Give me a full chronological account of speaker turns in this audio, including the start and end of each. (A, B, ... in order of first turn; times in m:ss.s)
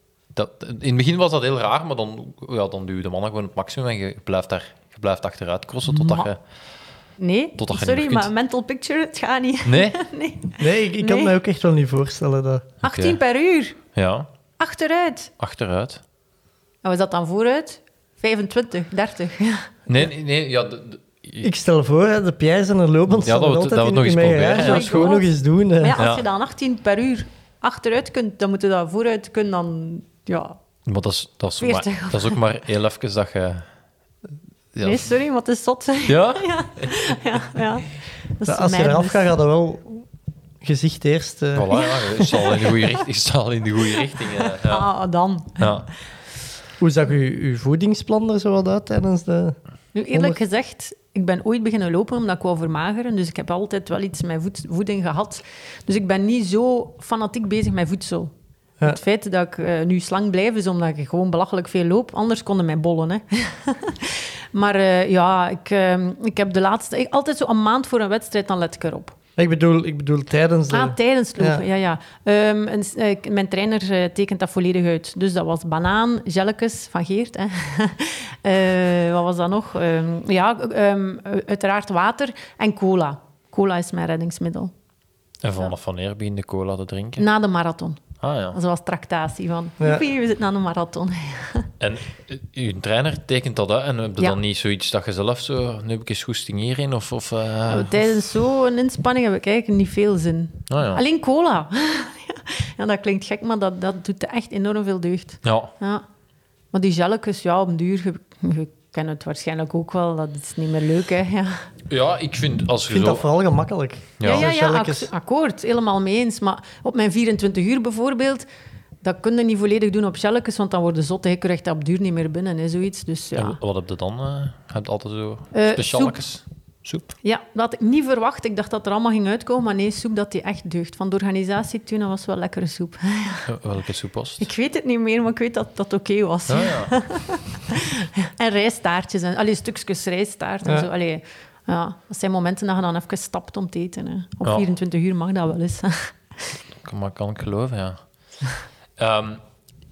0:00.3-0:06.4 A
0:05.9-0:06.3 B
0:07.2-0:11.3 B
0:07.6-0:08.3 A
0:09.6-0:10.0 A
0:10.6-0:12.7 C
0:12.8-0:13.2 A
0:12.8-0:13.8 B
0:13.9-0:14.3 A
0:14.6-0:15.3 B
0:15.4-0:16.0 A
0:16.8-0:19.6 B
0:19.9-0:21.5 A
0:21.4-0:26.0 C
0:23.2-0:25.1 A
0:24.5-0:30.6 B
0:26.0-0:26.2 A
0:30.8-0:33.6 A
0:31.6-0:32.4 B
0:34.7-0:35.1 A
0:34.8-0:39.3 B
0:36.1-0:36.9 A
0:38.4-0:40.0 C
0:40.6-0:41.8 C
0:41.5-0:44.8 A
0:41.7-0:42.9 B
0:44.4-0:45.7 B
0:45.6-0:45.9 A
0:46.8-0:49.6 C
0:49.9-0:58.3 B
0:50.1-0:50.4 C
0:58.8-1:09.1 B
1:09.4-1:11.6 C
1:10.7-1:24.7 B
1:25.4-1:27.3 A
1:27.2-1:28.0 B
1:28.2-1:28.6 A
1:28.5-1:31.7 B
1:31.8-1:38.2 A
1:37.7-1:46.0 B
1:40.7-1:41.0 A
1:45.4-1:45.7 A
1:46.7-1:51.6 B
1:51.9-1:53.3 A
1:52.9-1:55.1 C
1:54.2-1:54.5 A
1:54.2-1:58.4 B
1:59.0-2:03.6 B
2:03.4-2:07.1 A
2:05.5-2:06.2 B
2:07.2-2:13.5 B
2:13.5-2:14.5 A
2:14.4-2:26.5 B
2:16.5-2:16.9 A
2:26.8-2:28.0 A
2:29.0-2:29.4 A